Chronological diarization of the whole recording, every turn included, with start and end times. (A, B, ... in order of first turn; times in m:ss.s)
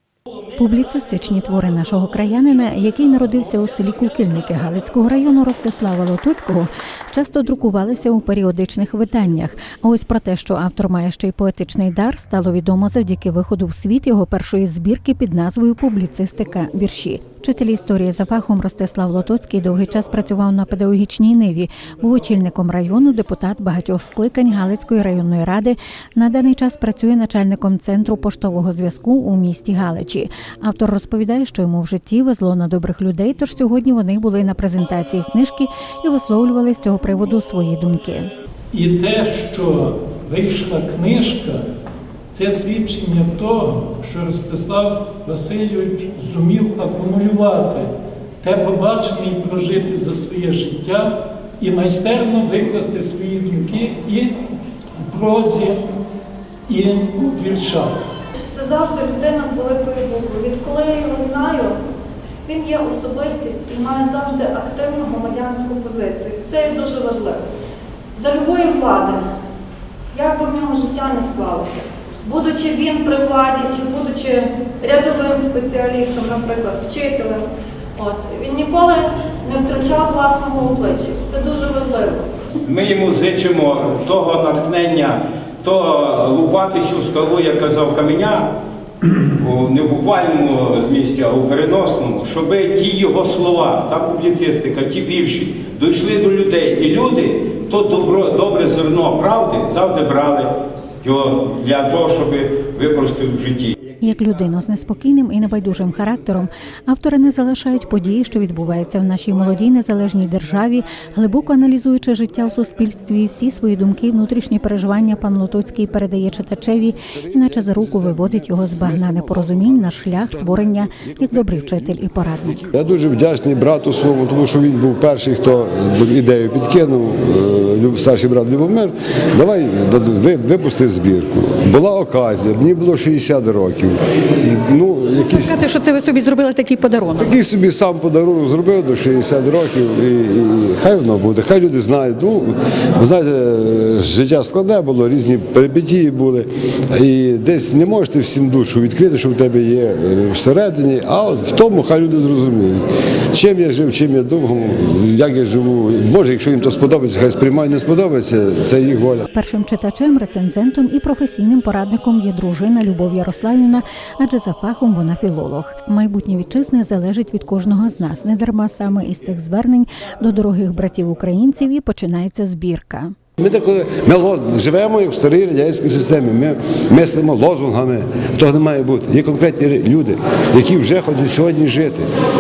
0:00.6-0:38.3 A
0:38.7-0:41.6 B
0:42.3-0:47.9 B
0:48.4-0:54.3 B
0:55.0-0:55.8 B
0:56.7-0:57.9 B
0:58.5-1:01.8 C
1:02.5-1:07.4 C
1:08.2-1:09.2 C
1:10.1-1:17.5 C
1:18.0-1:22.3 C
1:22.6-1:28.5 D
1:29.4-1:40.5 D
1:41.0-1:43.8 D
1:44.0-2:02.6 A
1:57.1-2:15.6 E
2:15.3-2:17.3 F
2:17.2-2:32.8 E
2:33.3-2:39.3 E
2:39.3-2:53.1 A
2:53.4-3:02.1 E